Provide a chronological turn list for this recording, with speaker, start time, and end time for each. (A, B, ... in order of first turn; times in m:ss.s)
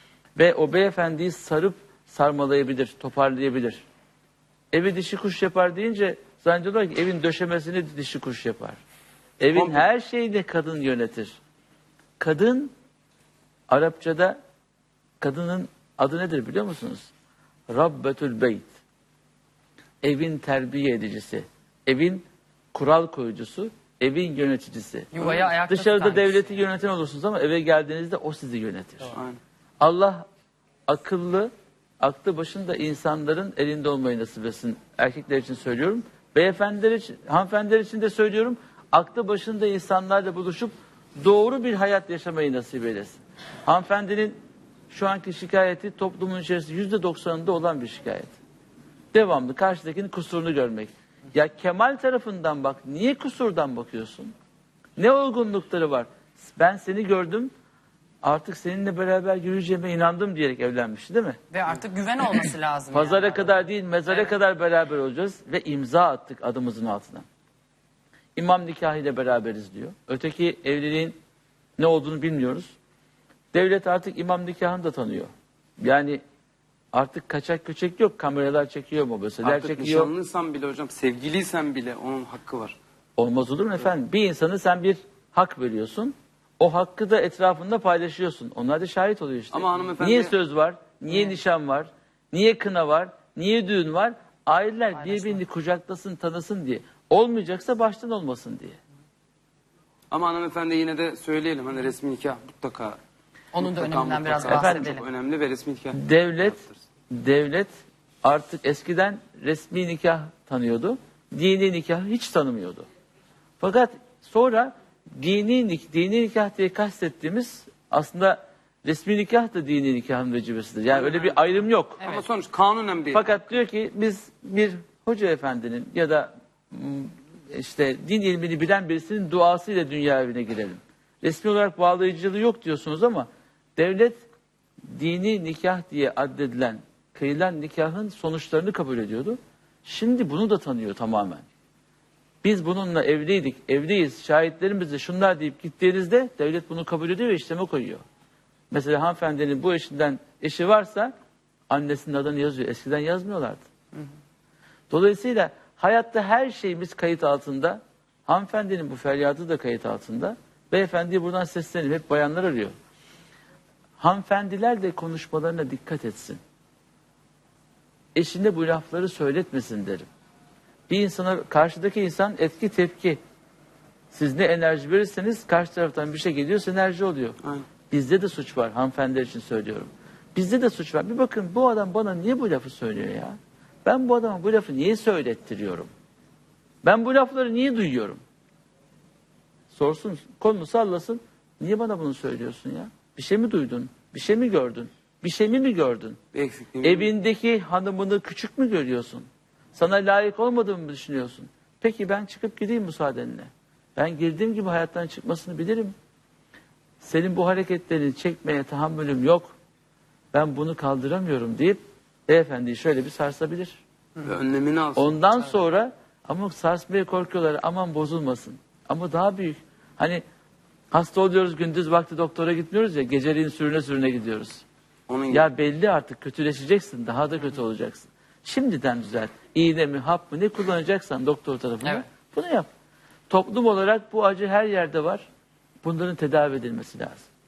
0:00.4-0:03.8 A
0:04.7-0:08.8 A
0:09.4-0:11.3 A
0:09.5-0:09.9 B
0:12.2-0:12.7 A
0:13.7-0:14.4 A
0:15.2-0:17.1 A
0:17.7-0:18.7 A
0:20.0-0:29.1 A
0:25.1-0:26.6 C
0:29.1-0:29.4 B
0:29.8-0:30.2 A
0:30.9-0:31.5 A
0:32.0-0:44.4 A
0:44.9-0:48.3 A
0:49.1-0:54.3 A
0:55.0-0:57.5 A
0:58.2-1:01.4 A
1:01.5-1:03.5 C
1:02.9-1:07.2 A
1:04.1-1:04.3 C
1:08.4-1:11.2 A
1:11.8-1:12.7 A
1:13.5-1:16.2 A
1:16.9-1:20.1 A
1:19.4-1:22.8 B
1:23.2-1:38.8 A
1:29.5-1:30.3 B
1:35.0-1:35.4 C
1:40.1-1:43.0 B
1:43.5-1:45.0 C
1:43.6-1:46.7 B
1:44.4-1:44.9 A
1:45.9-1:46.6 A
1:47.1-1:52.8 A
1:53.6-2:02.0 A
2:00.9-2:01.4 B
2:02.0-2:03.5 B
2:03.1-2:14.2 A
2:14.9-2:21.4 A
2:22.4-2:28.0 A
2:28.7-2:31.1 A
2:31.7-2:33.6 A
2:34.9-2:42.7 A
2:44.0-2:46.4 A
2:48.1-2:50.0 A
2:50.9-2:53.2 A
2:54.1-2:57.4 A
2:57.9-3:05.9 A
3:06.8-3:08.2 A
3:09.7-3:16.2 A
3:16.3-3:17.1 B
3:16.8-3:25.9 A
3:27.0-3:29.5 A
3:30.3-3:33.8 A
3:34.2-3:35.2 B
3:35.0-3:40.2 A
3:40.9-3:44.6 A
3:45.1-3:45.5 B
3:45.3-3:52.7 A
3:53.3-3:55.2 A
3:55.8-3:57.2 A